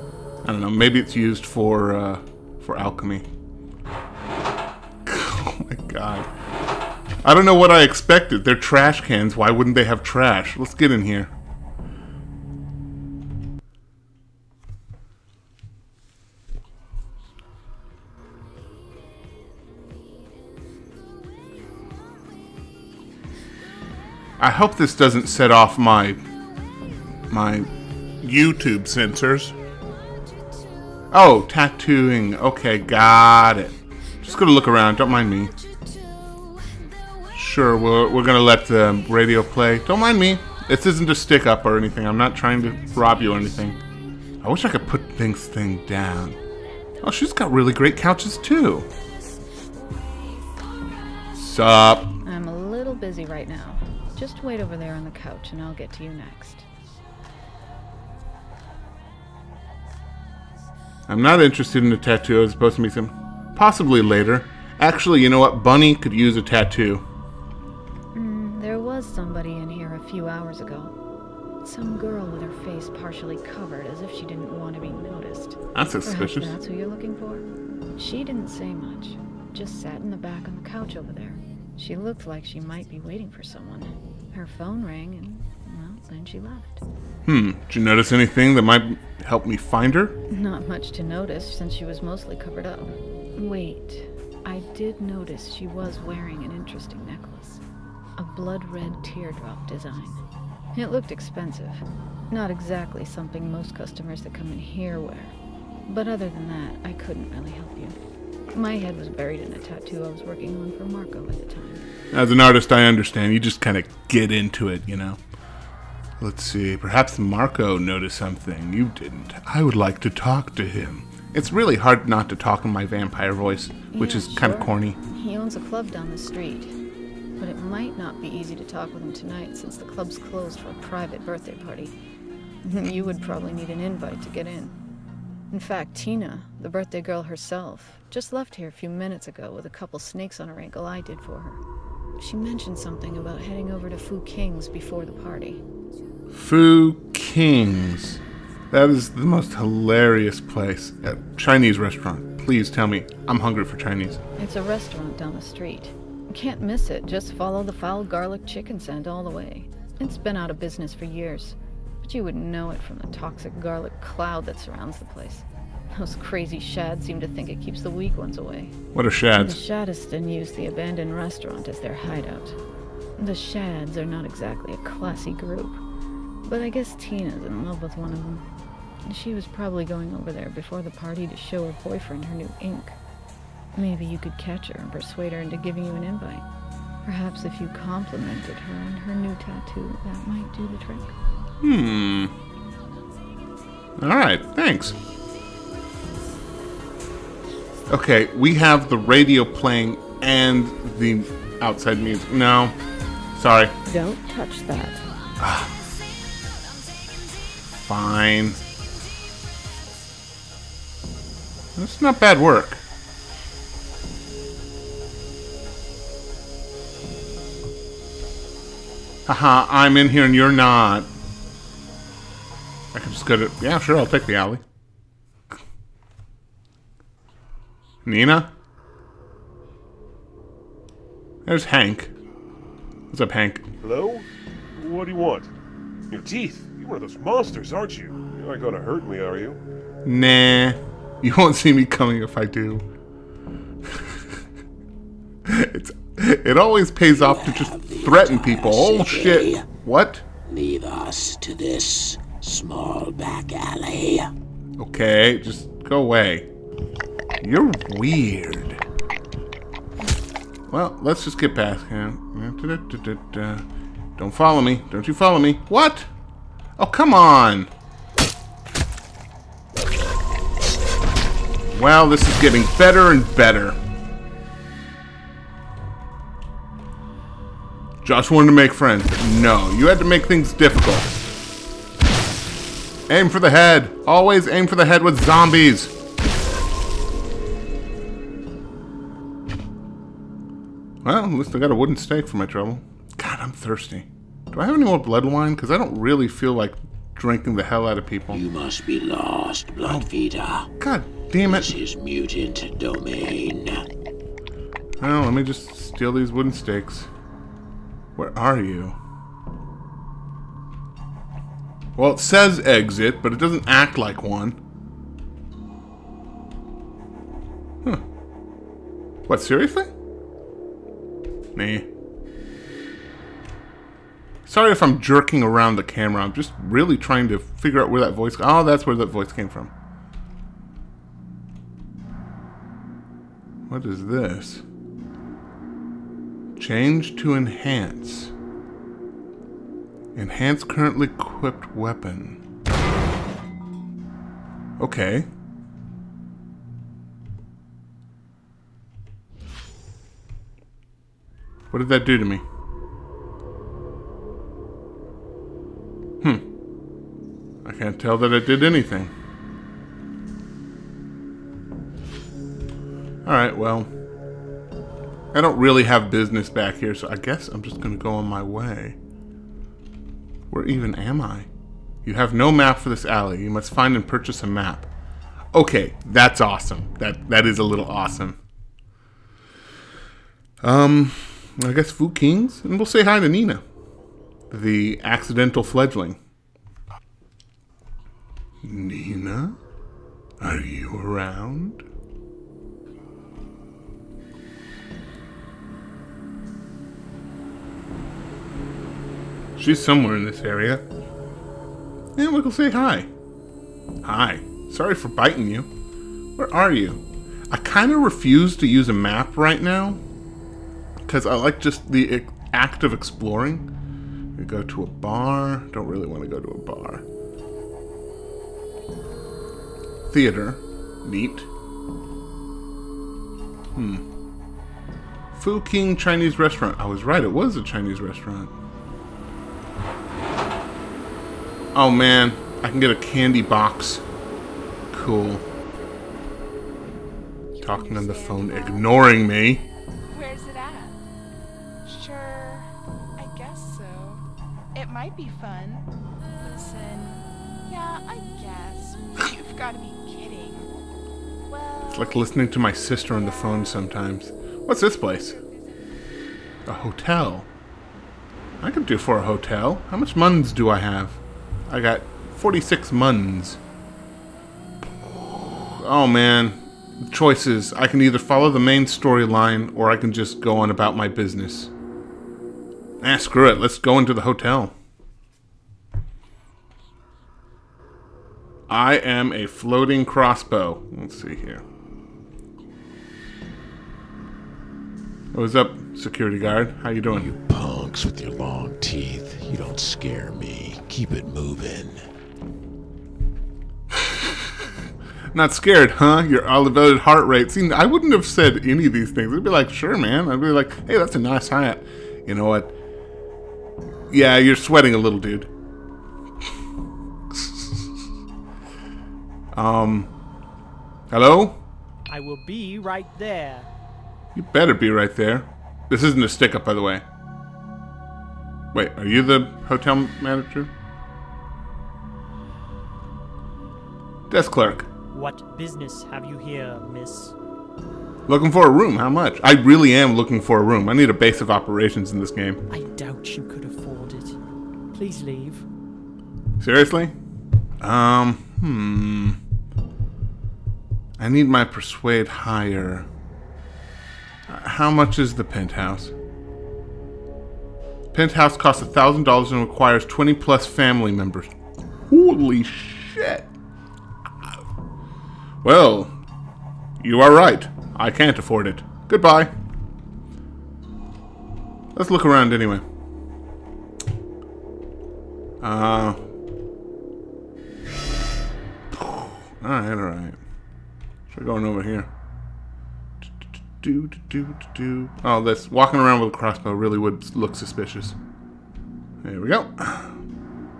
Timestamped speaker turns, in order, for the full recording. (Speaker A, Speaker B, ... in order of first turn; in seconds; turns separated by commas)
Speaker A: 0.4-3.3, Speaker A: 5.0-6.3, Speaker A: 7.2-11.3, Speaker A: 24.4-26.2, Speaker A: 27.3-27.7, Speaker A: 28.2-29.6, Speaker A: 31.1-35.6, Speaker A: 37.3-43.8, Speaker A: 44.4-46.4, Speaker A: 47.0-48.9, Speaker A: 51.3-52.1, Speaker B: 52.2-56.6, Speaker A: 61.1-67.0, Speaker B: 68.1-70.9, Speaker B: 71.6-77.5, Speaker A: 75.7-76.5, Speaker B: 78.0-86.8, Speaker A: 87.2-90.2, Speaker B: 90.3-97.6, Speaker B: 98.2-100.2, Speaker B: 100.7-105.3, Speaker B: 105.8-108.0, Speaker B: 108.5-111.8, Speaker A: 112.1-115.2, Speaker A: 116.2-125.0, Speaker B: 123.9-126.7, Speaker B: 127.4-131.9, Speaker B: 132.6-134.8, Speaker B: 135.5-141.6, Speaker B: 142.2-145.6, Speaker A: 146.3-154.2, Speaker B: 154.4-168.8, Speaker A: 168.9-169.6, Speaker B: 169.3-172.6, Speaker B: 173.2-175.8, Speaker B: 176.4-178.4, Speaker B: 179.0-183.0, Speaker B: 183.7-186.4, Speaker B: 187.0-191.2, Speaker A: 191.6-192.3, Speaker A: 194.0-194.9, Speaker A: 197.9-202.8, Speaker A: 203.3-203.8, Speaker B: 203.9-205.1, Speaker A: 205.4-205.8, Speaker A: 207.8-208.6, Speaker A: 211.7-212.8, Speaker A: 219.2-221.1, Speaker A: 222.9-224.6, Speaker A: 228.0-228.5, Speaker A: 231.4-232.1, Speaker A: 233.1-233.7, Speaker C: 233.8-235.5, Speaker C: 236.1-239.6, Speaker A: 240.0-242.8, Speaker A: 245.4-250.2, Speaker D: 247.2-249.6, Speaker D: 250.4-254.3, Speaker A: 254.8-256.5, Speaker A: 257.4-258.8, Speaker A: 260.7-263.6, Speaker A: 264.1-266.1, Speaker A: 266.8-267.7, Speaker A: 271.7-273.8, Speaker A: 278.0-281.2, Speaker A: 283.1-285.9, Speaker A: 291.0-298.4, Speaker D: 298.3-300.7, Speaker A: 300.8-301.8, Speaker D: 301.5-303.8, Speaker A: 305.0-307.1, Speaker A: 308.1-309.0, Speaker A: 311.9-314.6, Speaker A: 319.3-319.9, Speaker A: 321.5-321.9, Speaker A: 324.4-329.7, Speaker A: 333.7-334.6, Speaker A: 336.6-338.3, Speaker A: 340.1-342.4, Speaker A: 344.8-345.3, Speaker A: 351.7-352.4, Speaker A: 357.6-359.1, Speaker A: 363.2-363.9, Speaker A: 365.3-369.0, Speaker A: 370.5-371.5, Speaker A: 372.0-374.9, Speaker A: 375.5-378.4, Speaker A: 380.6-383.6, Speaker A: 384.5-386.2, Speaker A: 388.6-389.6, Speaker A: 390.4-391.8, Speaker A: 399.6-400.8, Speaker A: 402.1-403.1, Speaker A: 404.0-405.7, Speaker A: 406.4-410.0, Speaker A: 411.1-413.7, Speaker A: 414.4-417.0, Speaker A: 420.1-421.5, Speaker A: 423.7-424.0, Speaker A: 425.3-428.5, Speaker A: 431.7-434.0, Speaker A: 434.9-435.4, Speaker E: 437.6-440.9, Speaker A: 437.6-439.6, Speaker E: 441.8-444.2, Speaker E: 444.7-445.9, Speaker E: 446.4-450.7, Speaker E: 451.5-452.3, Speaker A: 451.9-455.4, Speaker E: 453.0-453.9, Speaker E: 455.0-455.8, Speaker A: 456.6-457.5, Speaker A: 458.6-463.6, Speaker A: 465.0-471.7, Speaker A: 473.0-474.7, Speaker A: 478.7-481.6, Speaker A: 485.3-487.3, Speaker D: 487.1-492.0, Speaker A: 494.0-494.2, Speaker A: 495.3-502.7, Speaker A: 504.1-505.5, Speaker A: 507.3-508.1, Speaker A: 509.5-510.1, Speaker A: 511.1-511.6, Speaker F: 512.1-513.7, Speaker A: 514.3-517.0, Speaker A: 518.7-520.7, Speaker A: 524.3-524.9, Speaker F: 525.1-527.3, Speaker A: 528.3-532.6, Speaker F: 532.7-534.4, Speaker F: 534.9-535.6, Speaker A: 536.6-537.1, Speaker A: 537.8-539.4, Speaker A: 541.2-543.1, Speaker A: 544.5-546.1, Speaker A: 548.1-551.5, Speaker A: 552.1-553.5, Speaker A: 555.6-556.1, Speaker A: 557.0-559.5, Speaker A: 561.9-562.8, Speaker A: 565.6-566.2, Speaker A: 568.9-570.4, Speaker A: 571.3-572.1, Speaker A: 573.2-578.2, Speaker A: 579.2-580.2